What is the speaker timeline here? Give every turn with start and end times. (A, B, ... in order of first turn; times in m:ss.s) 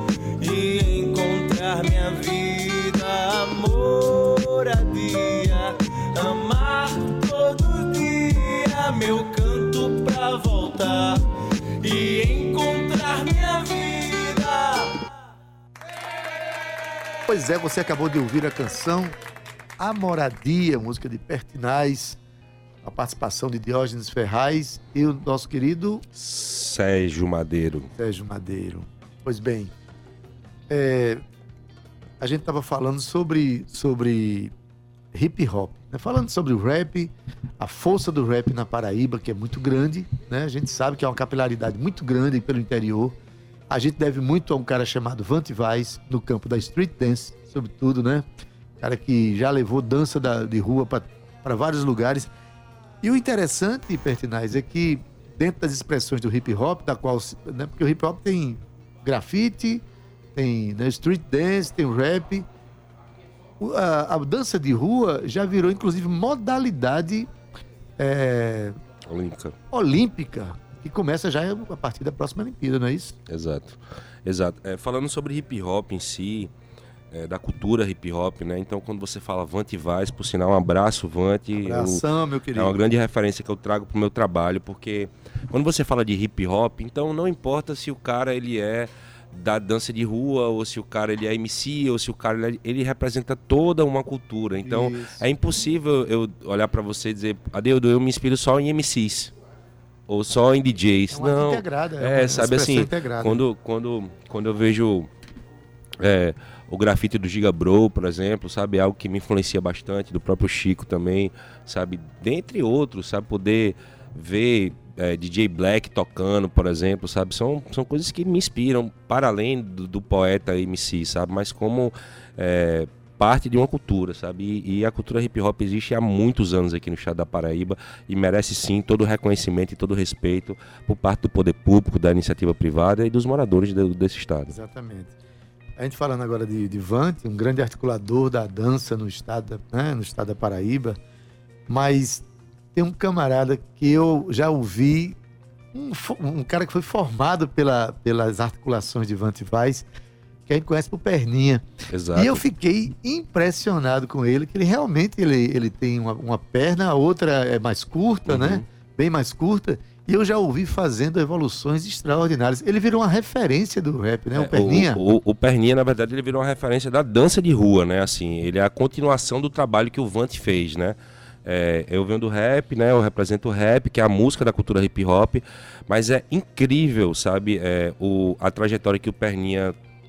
0:00.4-0:11.2 A
0:11.8-0:14.7 A
0:17.3-0:19.2 B
0:19.8-0:22.2 B
0:22.8-0:26.0 B
0:26.2-0:27.9 C
0:28.0-0:29.7 B
0:30.7-0:31.2 B
0:32.2-0:34.5 B
0:35.1-0:43.2 B
0:43.7-0:48.2 B
0:48.8-0:52.3 B
0:53.0-0:59.8 B
1:00.4-1:02.5 B
1:03.6-1:07.3 B
1:08.0-1:08.8 B
1:09.1-1:09.6 C
1:09.7-1:13.2 B
1:13.3-1:16.5 C
1:17.1-1:22.0 C
1:21.6-1:22.7 B
1:22.5-1:39.3 C
1:34.6-1:35.2 B
1:40.1-1:45.1 C
1:41.1-1:43.4 B
1:46.0-2:14.5 C
2:14.5-2:15.1 B
2:15.8-2:21.0 B
2:21.7-2:25.2 B
2:25.7-2:29.9 B
2:30.5-2:45.0 B
2:31.9-2:32.4 C
2:38.3-2:38.6 C
2:44.4-2:59.8 C